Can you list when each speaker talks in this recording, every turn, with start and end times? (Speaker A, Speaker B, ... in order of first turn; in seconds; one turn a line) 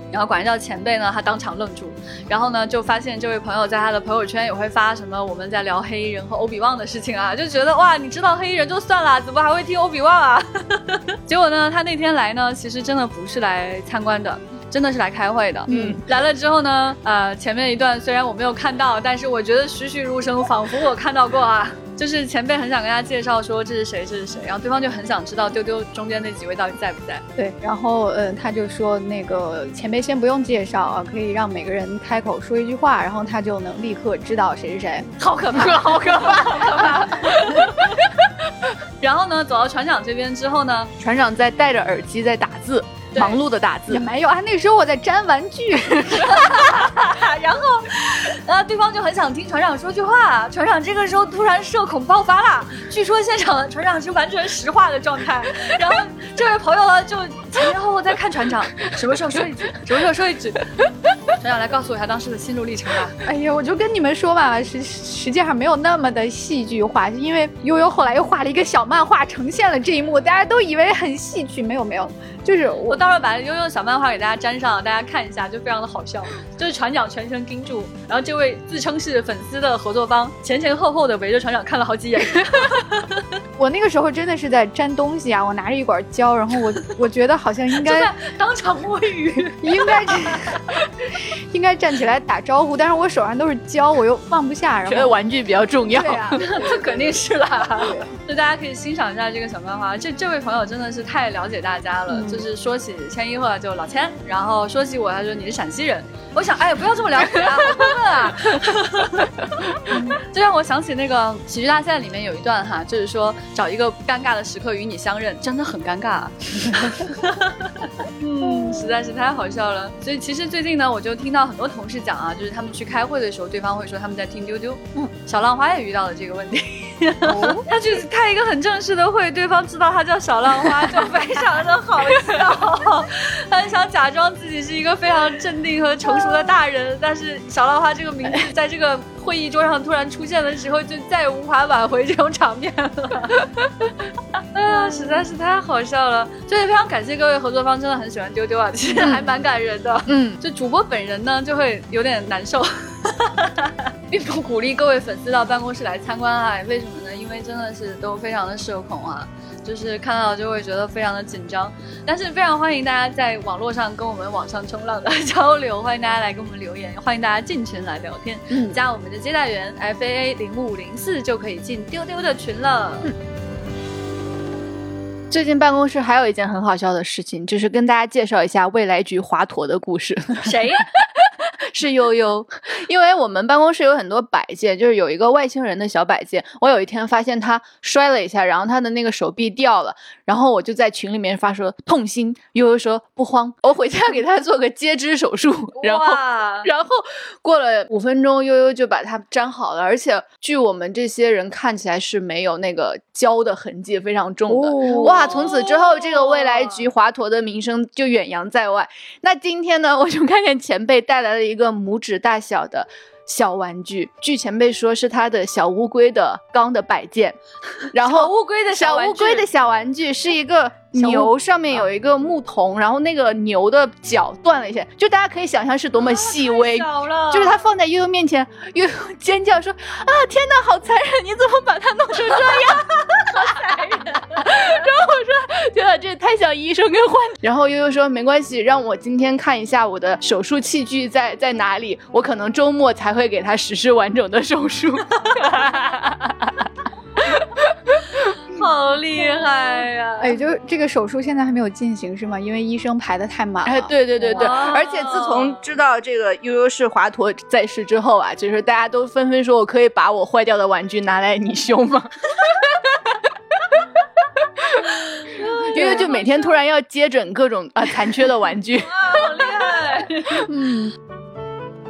Speaker A: 0.1-27.2
Speaker B: 15.7-16.0
Speaker C: 15.7-16.0
Speaker B: 27.4-35.1
Speaker C: 35.2-37.7
Speaker A: 35.3-38.1
Speaker A: 39.0-40.9
Speaker C: 41.0-44.0
Speaker A: 43.1-43.4
Speaker B: 43.9-46.6
Speaker A: 46.2-63.2
Speaker B: 63.2-73.0
Speaker A: 72.9-83.3
Speaker B: 83.6-88.1
Speaker A: 87.8-90.8
Speaker B: 89.6-95.2
Speaker C: 94.9-96.5
Speaker B: 95.9-97.2
Speaker A: 96.3-143.5
Speaker B: 97.8-98.0
Speaker B: 102.1-102.4
Speaker B: 109.9-110.2
Speaker B: 118.4-118.9
Speaker B: 127.3-127.6
Speaker A: 144.5-173.1
Speaker C: 149.0-149.2
Speaker C: 150.1-150.4
Speaker B: 168.5-168.8
Speaker C: 175.3-217.4
Speaker A: 180.4-180.9
Speaker A: 195.8-196.7
Speaker B: 204.5-205.3
Speaker A: 204.8-206.9
Speaker C: 217.9-248.0
Speaker A: 217.9-219.5
Speaker B: 220.9-221.3
Speaker A: 226.0-227.7
Speaker A: 233.4-234.5
Speaker A: 248.2-250.4
Speaker B: 250.2-254.6
Speaker C: 253.7-265.0
Speaker A: 254.3-255.6
Speaker A: 265.1-266.3
Speaker C: 265.7-269.3
Speaker B: 265.8-266.1
Speaker A: 268.8-270.5
Speaker B: 270.5-270.9